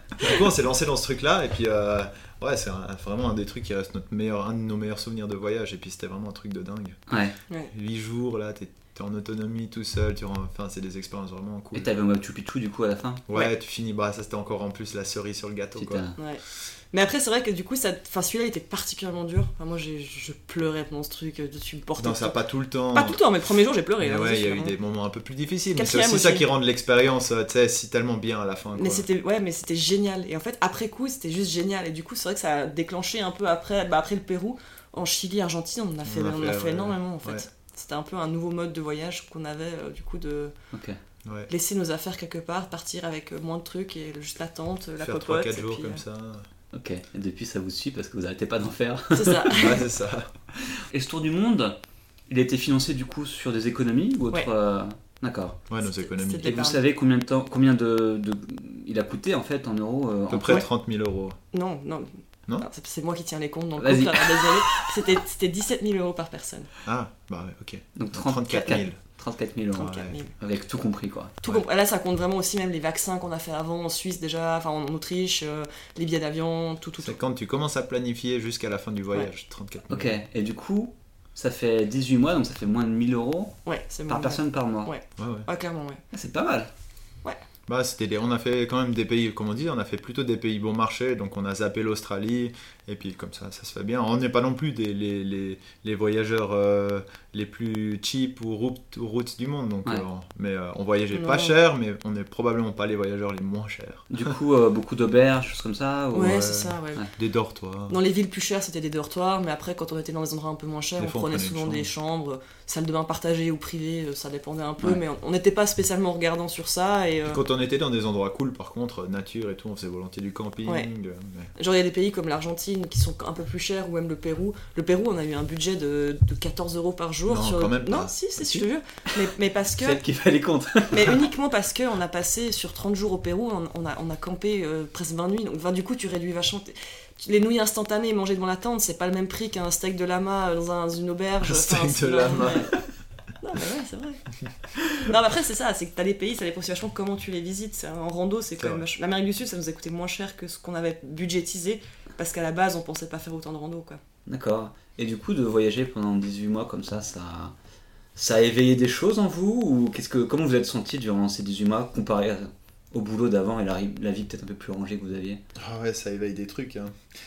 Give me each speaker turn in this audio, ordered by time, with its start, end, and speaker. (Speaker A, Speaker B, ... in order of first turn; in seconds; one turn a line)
Speaker A: 0.2-7.0
Speaker B: 7.1-7.3
Speaker A: 7.7-11.9
Speaker B: 11.7-13.2
Speaker A: 13.3-16.0
Speaker B: 15.8-16.1
Speaker C: 16.2-22.4
Speaker A: 22.0-23.2
Speaker C: 22.9-24.7
Speaker A: 24.0-29.0
Speaker C: 25.7-26.4
Speaker C: 28.7-40.5
Speaker A: 36.0-37.5
Speaker B: 40.7-41.0
Speaker A: 41.2-41.5
Speaker C: 41.5-46.0
Speaker A: 45.0-46.5
Speaker B: 46.7-49.6
Speaker C: 49.1-49.8
Speaker A: 49.5-50.3
Speaker B: 50.9-51.7
Speaker B: 52.3-55.6
Speaker A: 55.7-56.5
Speaker C: 55.8-56.8
Speaker B: 56.4-60.6
Speaker A: 60.3-61.4
Speaker C: 61.5-66.7
Speaker B: 63.8-64.9
Speaker A: 66.8-69.0
Speaker B: 68.0-71.3
Speaker C: 68.5-68.8
Speaker A: 69.7-70.2
Speaker C: 69.8-70.3
Speaker C: 71.4-77.2
Speaker A: 77.0-80.2
Speaker B: 79.9-83.5
Speaker C: 83.6-86.0
Speaker B: 84.1-84.9
Speaker A: 85.2-85.5
Speaker B: 86.1-86.7
Speaker A: 87.7-104.3
Speaker C: 101.1-101.5
Speaker B: 104.1-106.4
Speaker C: 106.1-107.0
Speaker A: 106.3-108.0
Speaker C: 107.9-117.4
Speaker A: 111.0-111.9
Speaker A: 117.2-121.5
Speaker C: 121.6-130.0
Speaker A: 127.3-128.1
Speaker B: 129.8-131.3
Speaker C: 130.9-142.7
Speaker A: 141.4-142.7
Speaker C: 143.4-144.2
Speaker C: 145.0-154.0
Speaker A: 148.6-148.8
Speaker B: 154.2-157.5
Speaker B: 158.2-165.4
Speaker A: 165.6-166.9